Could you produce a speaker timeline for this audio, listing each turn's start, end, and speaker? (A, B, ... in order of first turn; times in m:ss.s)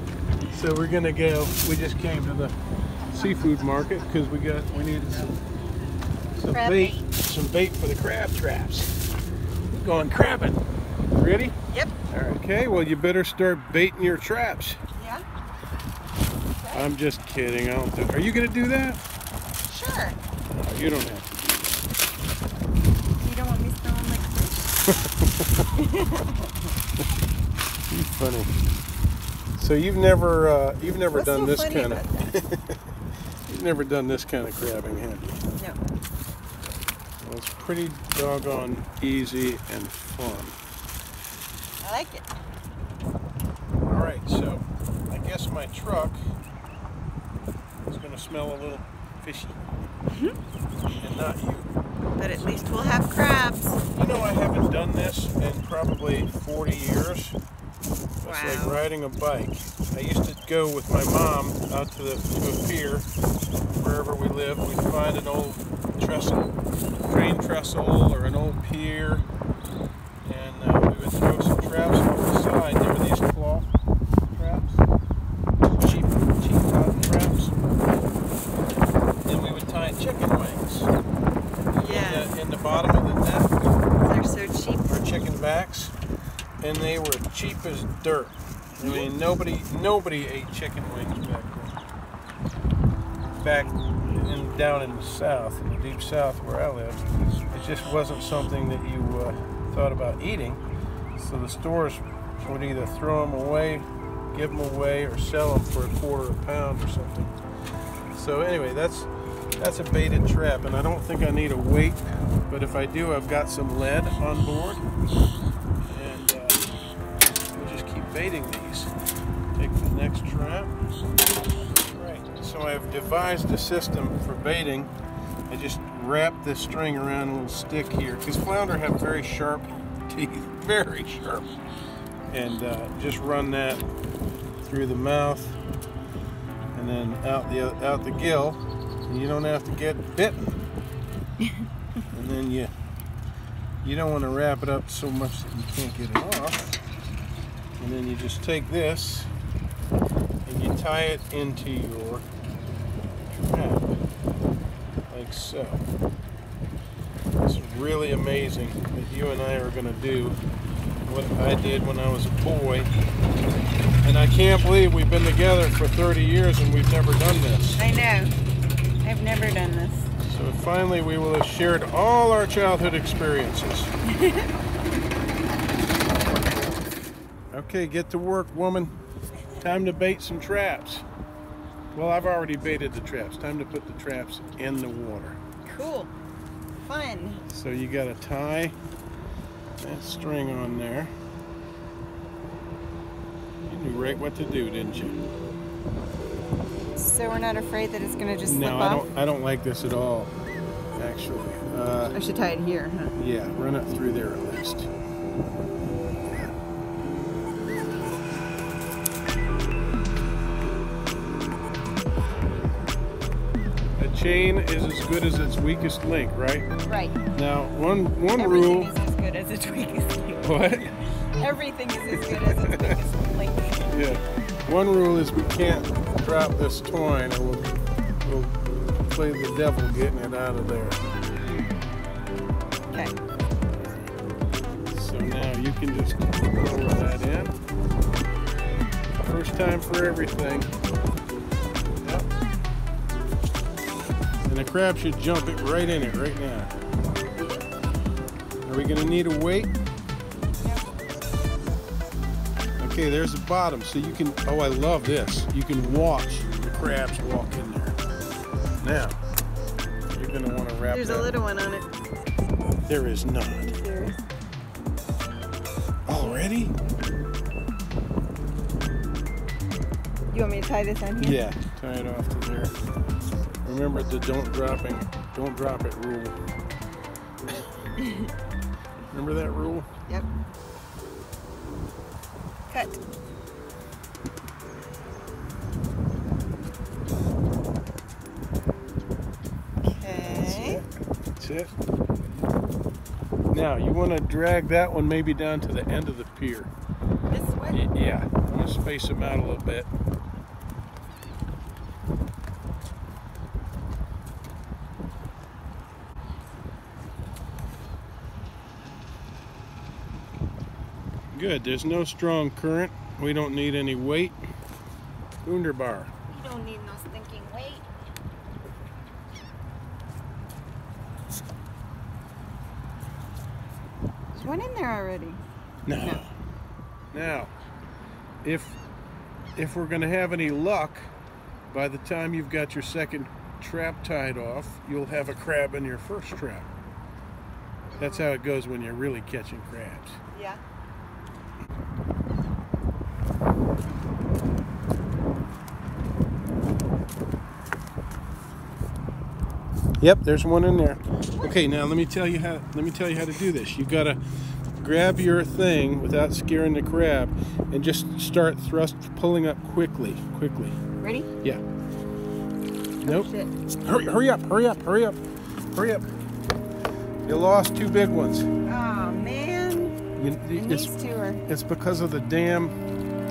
0:00.4-0:02.5 A
0:03.1-0:05.4 A
0:06.3-0:09.0 A
0:06.5-0:07.0 B
0:09.8-0:10.6 A
0:11.1-0:11.6 A
0:11.7-0:11.9 B
0:12.1-0:14.8 A
0:14.9-0:15.2 B
0:16.6-0:16.9 B
0:16.7-0:19.0 A
0:19.7-0:20.2 B
0:20.5-0:21.7 A
0:23.2-0:24.8 B
0:24.9-0:25.6 A
0:25.7-0:26.5 B
0:27.9-0:28.5 A
0:29.6-0:32.8 A
0:31.1-0:32.2 B
0:33.5-0:35.4 A
0:37.2-0:40.5 A
0:41.8-0:42.3 B
0:43.8-0:46.2 A
0:47.8-0:49.6 A
0:50.1-0:50.4 B
0:51.0-0:51.7 A
0:52.2-0:53.8 B
0:52.3-0:52.6 A
0:53.9-0:57.4 A
0:58.2-1:03.0 A
0:58.2-0:58.8 B
1:03.8-1:09.2 A
1:10.2-1:13.7 A
1:14.3-1:14.8 A
1:15.7-1:17.5 A
1:19.2-1:20.9 A
1:21.7-1:23.8 A
1:21.8-1:22.3 B
1:24.0-1:24.9 B
1:24.8-1:25.9 A
1:26.6-1:31.8 A
1:28.8-1:29.1 B
1:33.4-1:40.6 A
1:41.2-1:47.3 A
1:48.1-1:54.8 A
1:55.8-1:56.6 A
1:57.5-1:58.9 A
1:59.6-2:00.7 A
2:01.7-2:04.9 A
2:05.5-2:11.5 A
2:12.3-2:13.8 A
2:14.6-2:15.6 A
2:16.7-2:20.6 A
2:22.1-2:22.7 A
2:23.8-2:26.8 A
2:27.8-2:29.3 A
2:30.4-2:32.2 A
2:33.3-2:34.0 A
2:35.1-2:35.8 A
2:37.4-2:40.4 A
2:41.0-2:42.9 A
2:44.0-2:47.9 A
2:47.8-2:48.3 B
2:49.0-2:50.1 B
2:50.2-2:53.9 A
2:54.0-2:54.5 B
2:57.5-2:58.9 A
2:59.6-3:01.0 A
3:01.9-3:05.4 A
3:05.6-3:06.1 B
3:06.8-3:07.4 B
3:07.5-3:08.8 A
3:09.8-3:11.1 A
3:13.7-3:15.3 A
3:17.0-3:19.1 B
3:18.4-3:20.3 A
3:21.0-3:22.2 A
3:22.1-3:23.1 B
3:23.1-3:24.9 A
3:34.0-3:36.7 A
3:36.9-3:37.2 B
3:37.3-3:38.9 A
3:38.3-3:44.0 B
3:40.4-3:41.0 A
3:42.2-3:43.0 A
3:43.9-3:47.7 A
3:48.2-3:51.0 A
3:52.9-3:53.2 B
3:54.9-3:57.5 A
3:59.2-4:00.7 A
4:02.0-4:02.3 A
4:04.5-4:06.7 A
4:07.4-4:07.6 B
4:08.6-4:09.7 A
4:10.6-4:10.9 B
4:12.8-4:18.0 A
4:18.8-4:19.2 A
4:20.1-4:21.3 A
4:20.9-4:21.9 B
4:22.9-4:23.8 A
4:23.7-4:24.2 B
4:26.1-4:26.7 A
4:26.1-4:26.5 B
4:30.3-4:31.4 B
4:31.2-4:32.7 A
4:33.6-4:36.4 A
4:38.0-4:38.3 B
4:39.1-4:39.9 A
4:42.7-4:43.0 B
4:49.8-4:50.8 B
4:50.0-4:51.7 A
4:53.5-4:56.7 A
4:57.3-4:57.8 B
4:57.7-4:59.9 A
5:11.3-5:14.4 A
5:15.4-5:16.1 A
5:16.3-5:17.9 B
5:24.3-5:25.4 B
5:25.8-5:26.3 A
5:26.0-5:26.2 B
5:27.1-5:27.5 A
5:28.4-5:28.8 A
5:29.6-5:31.1 A
5:31.7-5:36.7 A
5:38.0-5:40.2 A
5:38.0-5:38.3 B
5:40.3-5:40.6 B
5:50.0-5:54.2 A
5:54.8-6:00.8 A
6:01.0-6:01.3 B
6:03.0-6:03.3 A
6:03.0-6:03.5 B
6:03.8-6:05.2 A
6:05.7-6:06.1 A
6:07.2-6:08.5 A
6:08.6-6:10.0 B
6:10.2-6:10.9 A
6:10.5-6:11.4 B
6:11.4-6:12.7 A